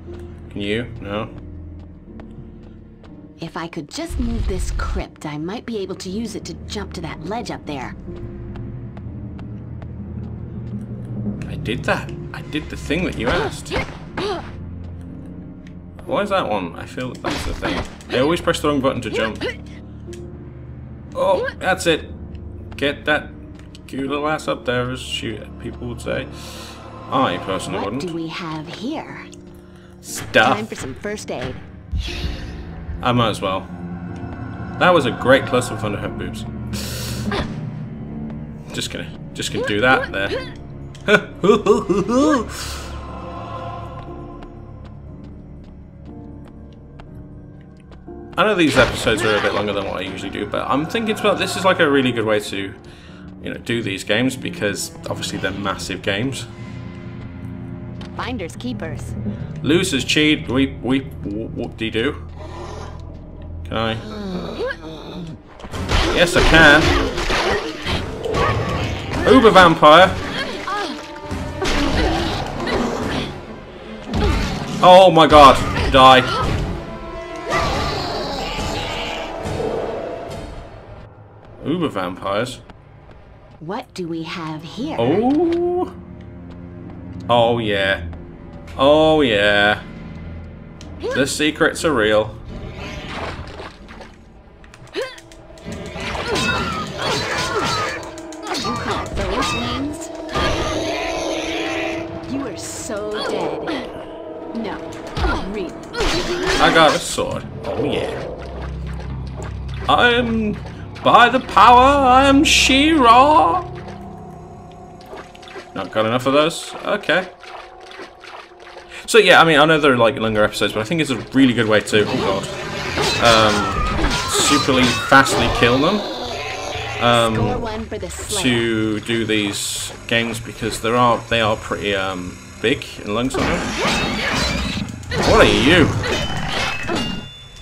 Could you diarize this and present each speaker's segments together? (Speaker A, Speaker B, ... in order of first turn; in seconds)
Speaker A: 0.5-1.3, 11.4-13.8, 16.0-19.4, 21.1-22.2, 22.8-28.1, 30.0-30.7, 33.0-33.7, 34.8-37.2, 38.7-40.4, 41.1-42.9, 48.4-52.8, 53.4-56.5, 59.6-62.2, 63.6-64.0, 66.1-66.9, 69.2-70.2, 74.8-76.3, 81.6-82.6, 85.0-85.9, 87.3-88.1, 88.8-89.8, 91.1-92.4, 106.6-108.2, 109.9-113.7, 115.7-117.3, 119.0-122.5, 123.2-126.1, 127.0-127.6, 128.3-133.7, 135.2-136.0
Speaker B: 3.4-8.0, 27.7-29.3, 30.4-31.6, 58.2-59.2, 83.6-85.3, 98.6-100.1, 102.3-103.7, 104.5-105.9, 127.1-128.6